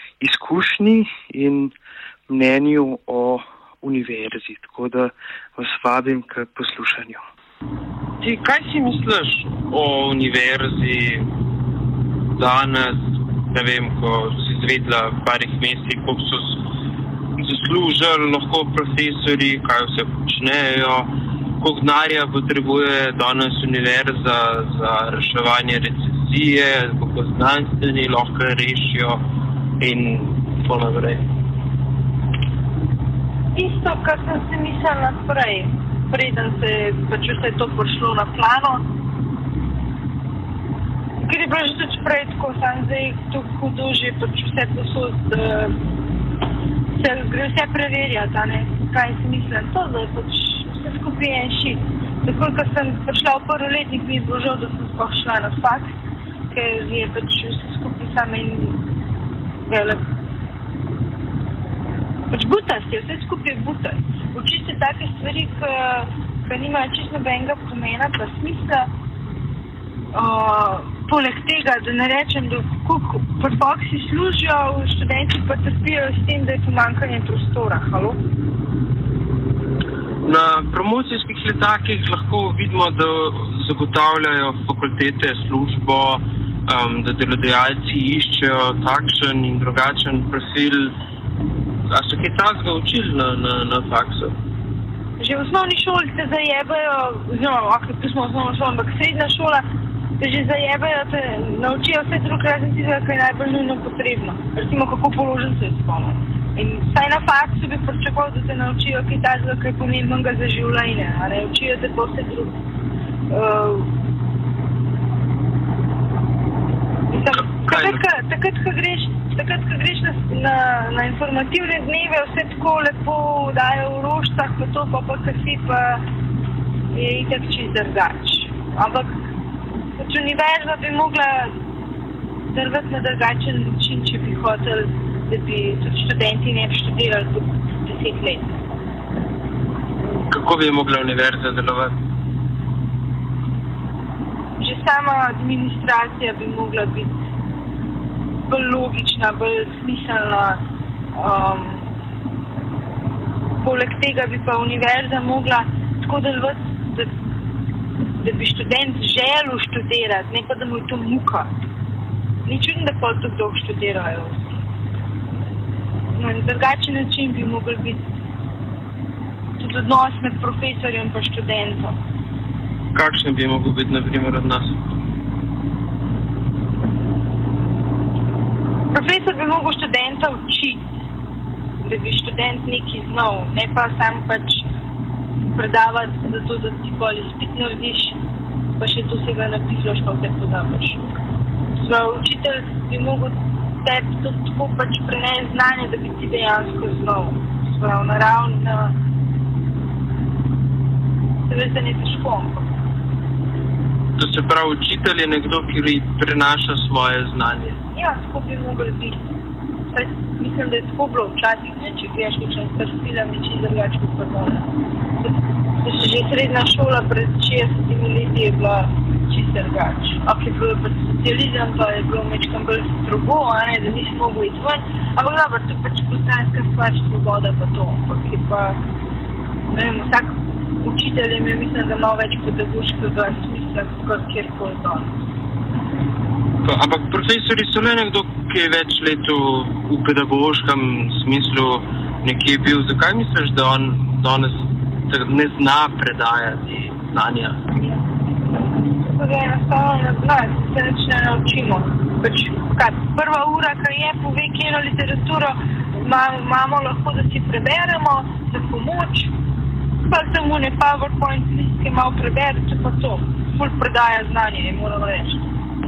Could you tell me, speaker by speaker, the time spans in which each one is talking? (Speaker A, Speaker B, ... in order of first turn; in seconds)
Speaker A: 0.2-1.7, 2.3-7.2
Speaker B: 8.2-11.3, 12.4-13.0, 13.5-16.6, 17.4-29.2, 29.8-31.2, 80.3-90.9, 91.9-94.3, 117.7-118.0, 140.1-141.9, 172.9-174.8, 204.2-207.7, 236.6-244.5, 245.1-247.6
Speaker C: 33.5-38.8, 41.2-45.8, 47.0-55.9, 56.5-58.8, 59.7-60.0, 62.3-68.9, 70.1-78.2, 95.2-99.7, 100.2-112.6, 113.3-113.9, 117.1-126.0, 126.9-129.1, 130.0-131.6, 132.5-138.5, 144.6-147.1, 148.5-150.6, 151.2-151.9, 153.6-157.1, 158.2-161.5, 162.4-164.6, 166.2-168.0, 169.6-172.0, 178.9-180.8, 181.8-184.7, 185.4-188.2, 188.8-191.0, 191.8-198.9, 201.5-202.7, 207.8-209.2, 209.9-214.7, 215.2-228.8, 229.7-235.1, 247.8-248.0, 249.0-259.3, 260.1-265.4